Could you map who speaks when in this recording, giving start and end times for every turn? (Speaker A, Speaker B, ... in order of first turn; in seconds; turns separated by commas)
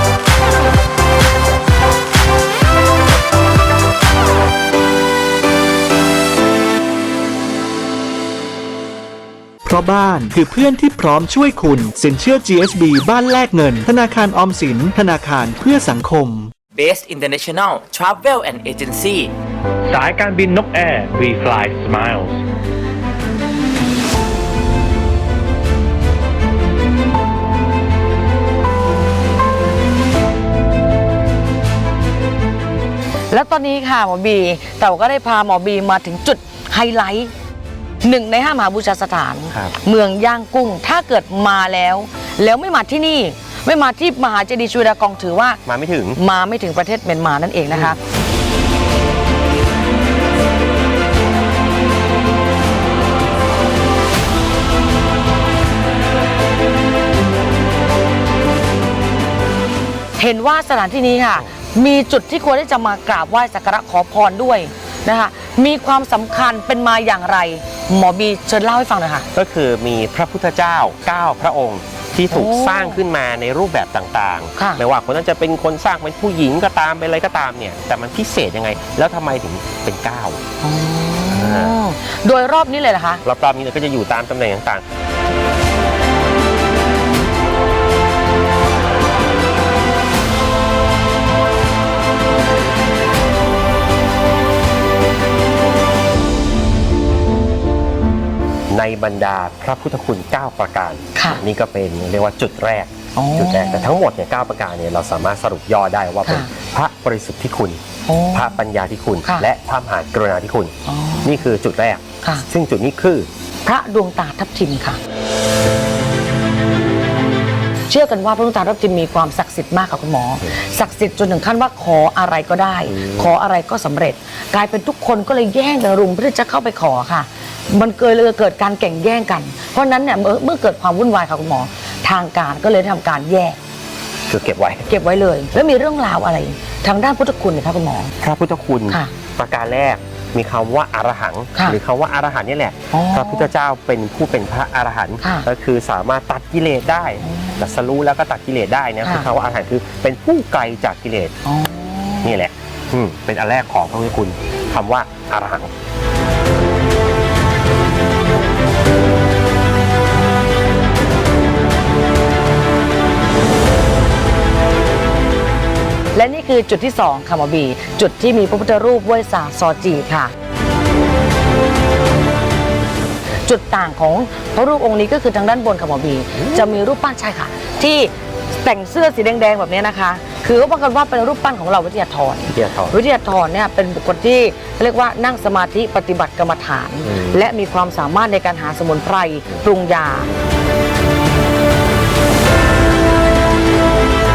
Speaker A: 9.7-16.5, Speaker B: 16.8-19.3, Speaker C: 19.9-22.4, Speaker D: 33.3-37.3, Speaker D: 38.0-45.6, Speaker E: 45.7-46.2, Speaker D: 46.1-48.0, Speaker E: 47.7-48.0, Speaker D: 60.2-69.3, Speaker E: 69.3-80.4, Speaker D: 72.3-73.0, Speaker D: 74.6-74.8, Speaker D: 80.6-83.2, Speaker E: 81.3-81.8, Speaker E: 83.2-84.8, Speaker E: 98.7-113.3, Speaker D: 101.2-101.4, Speaker D: 103.2-103.9, Speaker D: 108.1-108.6, Speaker D: 110.9-111.4, Speaker D: 113.7-115.0, Speaker D: 117.9-133.6, Speaker E: 122.9-123.3, Speaker E: 134.3-134.9, Speaker D: 134.9-138.1, Speaker E: 138.2-151.4, Speaker D: 142.9-143.5, Speaker D: 145.2-145.5, Speaker D: 147.2-147.6, Speaker D: 149.0-149.3, Speaker D: 151.4-152.4, Speaker E: 152.2-155.7, Speaker D: 166.2-170.3, Speaker D: 173.4-190.3, Speaker E: 176.4-176.7, Speaker E: 182.5-183.0, Speaker E: 187.1-187.4